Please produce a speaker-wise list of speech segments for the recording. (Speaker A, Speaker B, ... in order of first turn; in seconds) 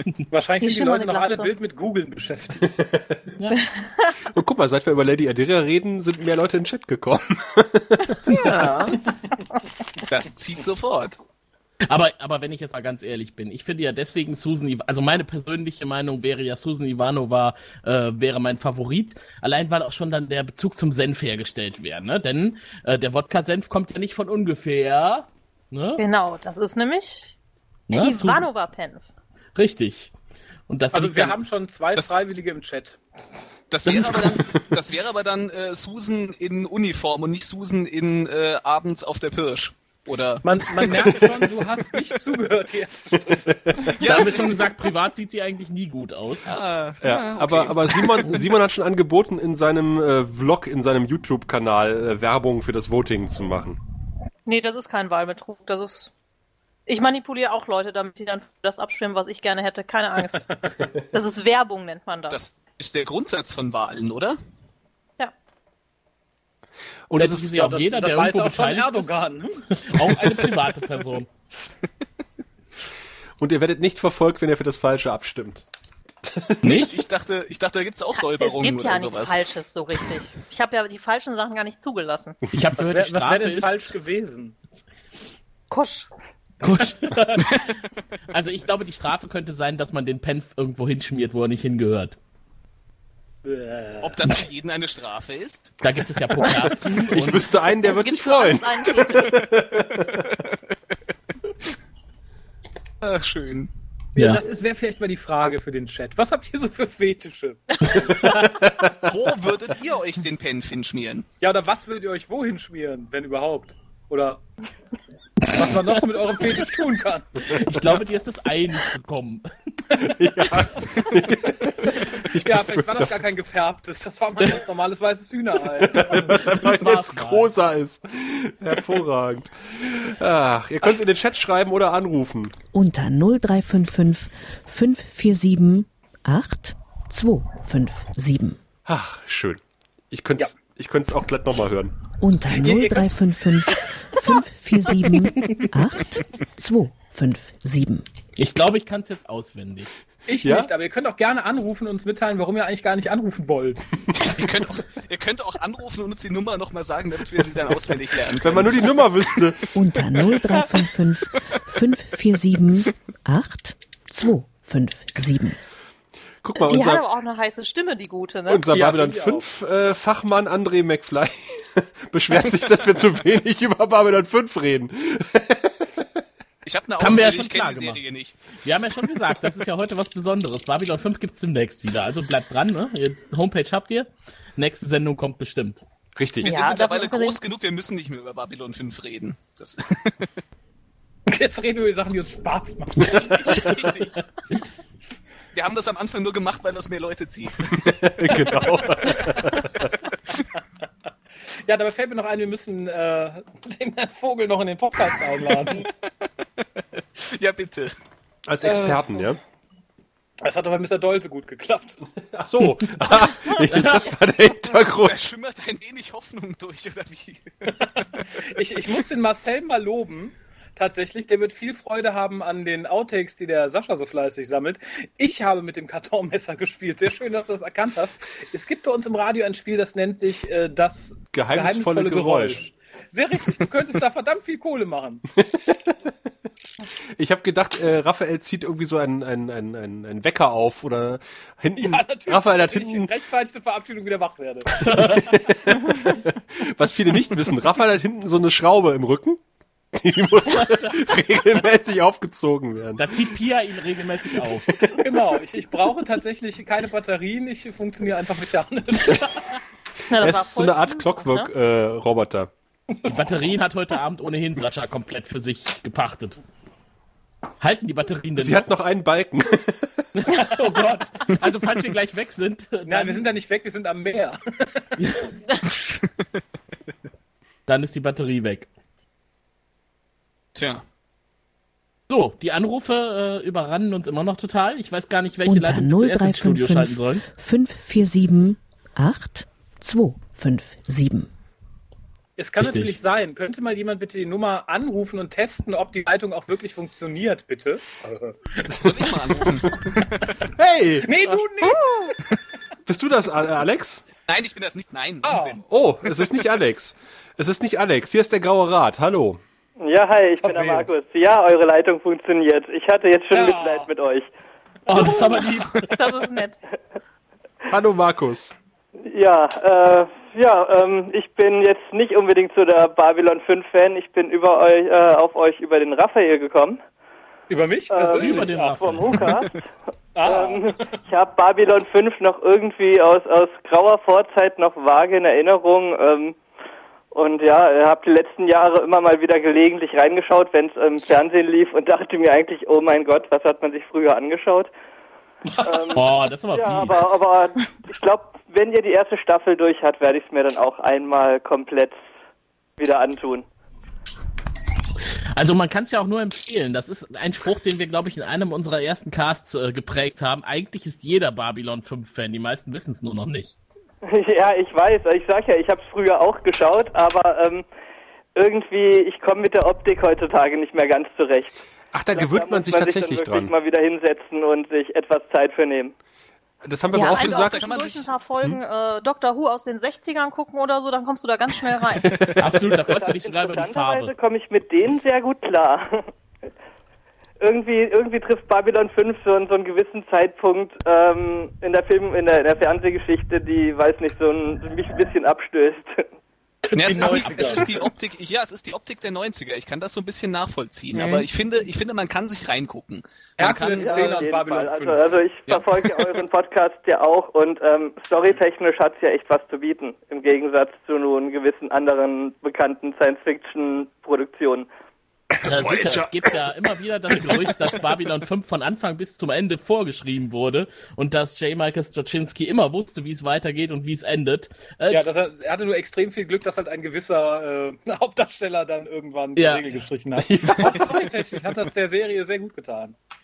Speaker A: 0.3-2.7, 30.9-33.0, 40.4-43.9, 67.5-69.9, 82.8-84.6, 93.4-94.3, 104.2-108.2, 111.4-114.4, 115.5-117.3, 122.3-126.5, 142.5-143.1, 150.3-153.8, 168.7-169.5, 191.3-193.8, 198.3-198.7, 201.7-205.9, 208.7-209.2, 210.4-212.0, 218.4-235.2, 241.8-245.3, 255.0-259.6, 272.9-274.4, 292.4-298.7, 301.0-302.1, 305.2-305.6, 310.4-310.9, 313.3-313.9, 314.9-315.4, 327.5-329.2, 330.1-330.9, 345.5-345.9, 396.6-397.8, 400.9-401.3, 403.4-405.1, 415.7-416.1, 424.9-432.9
Speaker B: 0.6-1.5, 26.0-27.3, 27.9-29.1, 54.5-56.1, 56.9-60.5, 61.1-62.4, 78.3-82.4, 85.7-86.1, 97.8-99.4, 107.9-108.2, 166.6-168.7, 186.4-187.4, 260.1-261.5, 315.8-316.6, 376.9-382.3
Speaker C: 3.4-3.7, 11.9-26.0, 27.9-28.5, 29.6-30.1, 30.7-31.4, 44.0-46.5, 67.2-69.2, 69.8-71.3, 76.6-76.9, 82.5-83.9, 86.6-87.7, 88.3-92.2, 95.8-97.4, 104.2-104.4, 117.4-119.5, 126.4-127.5, 148.4-149.9, 177.0-178.0, 178.6-185.8, 213.7-214.0, 253.0-254.7, 263.1-266.4, 267.6-268.6, 270.1-273.2, 275.0-275.3, 277.7-278.7, 282.1-287.2, 292.6-292.9, 314.9-315.8, 328.1-329.3, 345.9-347.1, 355.3-363.6, 382.4-384.1, 415.4-425.1, 429.4-429.7
Speaker D: 4.3-8.7, 34.1-34.4, 41.1-41.5, 43.5-43.9, 47.0-53.8, 67.1-67.5, 73.4-75.7, 76.2-76.8, 97.1-100.4, 108.5-109.0, 120.0-123.2, 125.7-132.6, 138.8-141.9, 150.4-150.7, 158.4-159.7, 166.4-167.0, 168.5-176.1, 186.2-186.5, 197.8-200.0, 208.5-209.4, 212.3-215.2, 231.3-232.6, 235.4-236.1, 237.2-243.1, 244.8-249.4, 249.9-253.3, 254.5-255.2, 260.1-262.5, 268.4-270.1, 300.6-301.8, 302.9-304.1, 305.7-309.4, 317.7-318.6, 371.9-373.5, 376.6-377.6, 430.2-431.1
Speaker E: 8.2-9.0, 10.1-11.2, 33.7-40.4, 44.0-44.6, 46.5-48.4, 62.3-64.4, 76.6-79.5, 94.0-95.8, 103.0-103.7, 109.1-111.3, 154.2-159.1, 176.7-178.4, 186.4-190.3, 193.0-194.2, 195.5-197.9, 207.0-207.9, 215.0-218.1, 280.5-280.8, 298.7-300.3, 304.3-305.6, 377.0-378.1, 396.7-404.2, 405.5-405.9
Speaker F: 132.7-138.6, 142.2-148.1, 159.7-165.6, 285.4-291.3
Speaker G: 309.8-314.3, 319.0-326.8, 327.9-329.6, 330.2-336.4, 337.1-344.7, 345.6-351.9, 352.8-353.5, 364.0-367.7, 368.4-371.6, 372.1-375.9, 382.9-386.1, 387.4-396.0, 403.6-414.7